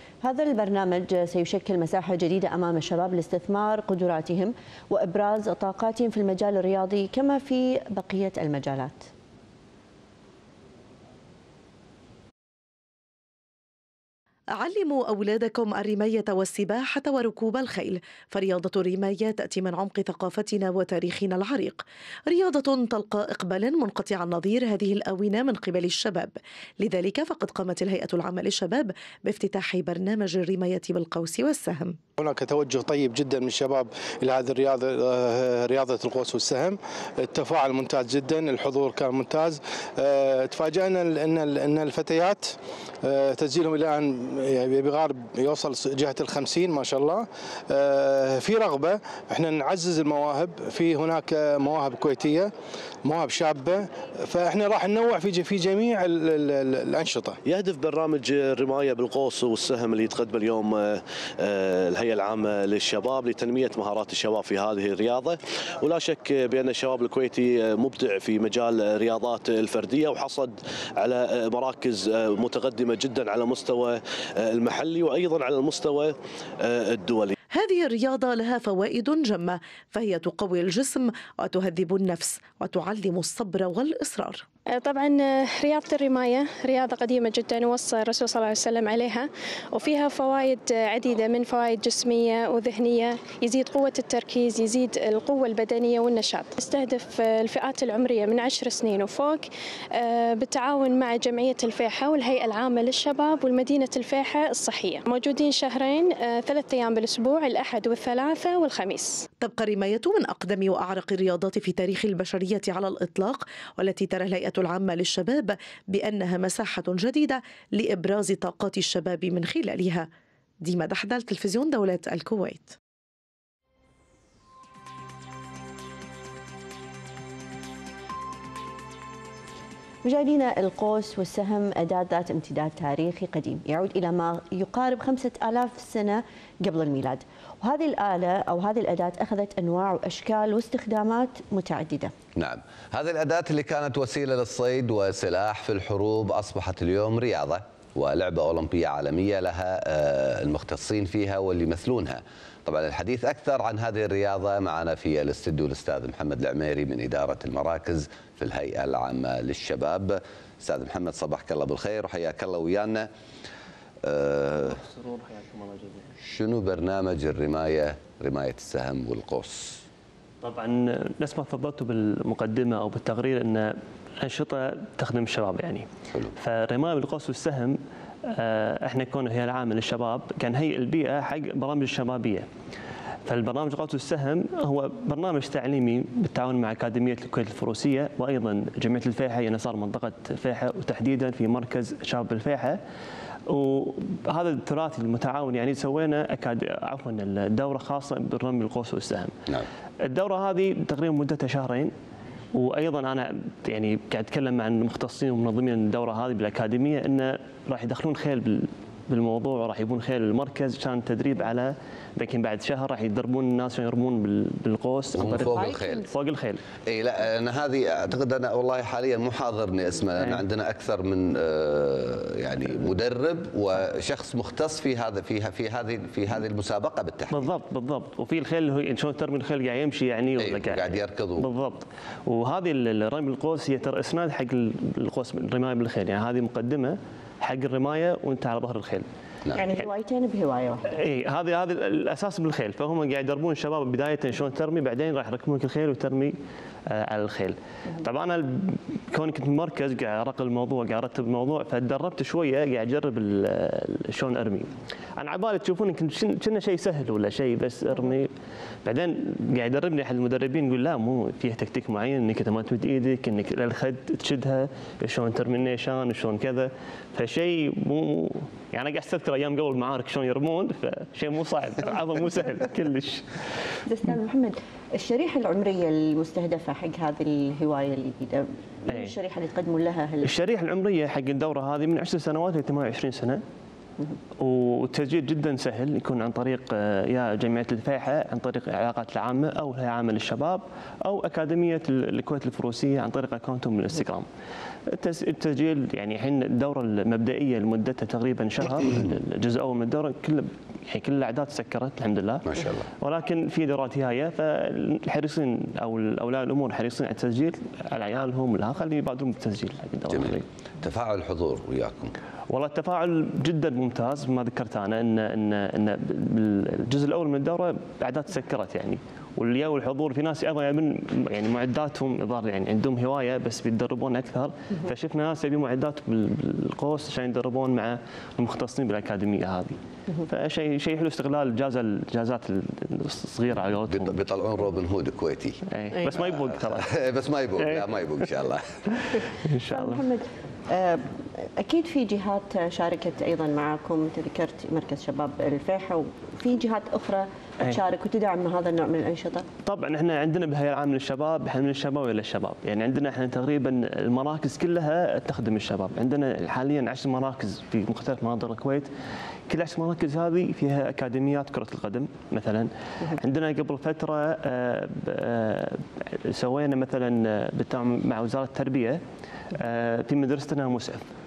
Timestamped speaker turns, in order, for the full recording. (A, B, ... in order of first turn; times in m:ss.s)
0:00.2-0:09.1 A
0:14.5-0:32.0 B
0:32.2-0:52.5 C
0:53.0-0:57.4 C
0:57.4-1:17.3 D
1:17.5-1:24.4 B
1:24.7-1:49.2 E
1:49.4-2:00.1 B
2:00.6-2:02.8 B
2:10.0-2:22.1 A
2:22.4-2:43.1 F
2:44.0-2:44.8 F
2:44.7-2:46.1 G
2:46.2-2:49.8 F
2:50.4-3:02.4 G
3:03.2-3:12.8 G
3:13.5-3:19.3 G
3:20.0-3:21.9 G
3:22.5-3:36.6 G
3:35.1-3:36.1 F
3:35.6-3:36.0 A
3:36.9-3:47.5 F
3:47.3-3:59.1 G
3:50.4-3:51.4 F
3:59.5-4:00.9 A
4:00.9-4:06.3 G
4:06.9-4:18.3 G
4:18.8-4:33.2 G
4:33.9-4:40.3 A
4:38.9-4:39.1 G
4:40.2-4:43.4 G
4:44.4-4:54.2 G
4:54.9-5:02.4 G
5:02.4-5:02.8 F
5:03.0-5:10.4 G
5:10.1-5:12.1 F
5:12.5-5:34.2 G
5:33.9-5:35.6 F
5:35.7-5:36.8 G
5:36.1-5:39.2 F
5:39.2-5:40.0 G
5:39.7-5:41.0 A
5:41.6-5:49.4 A
5:49.6-5:58.9 G
5:59.5-6:09.0 G
6:09.5-6:11.0 G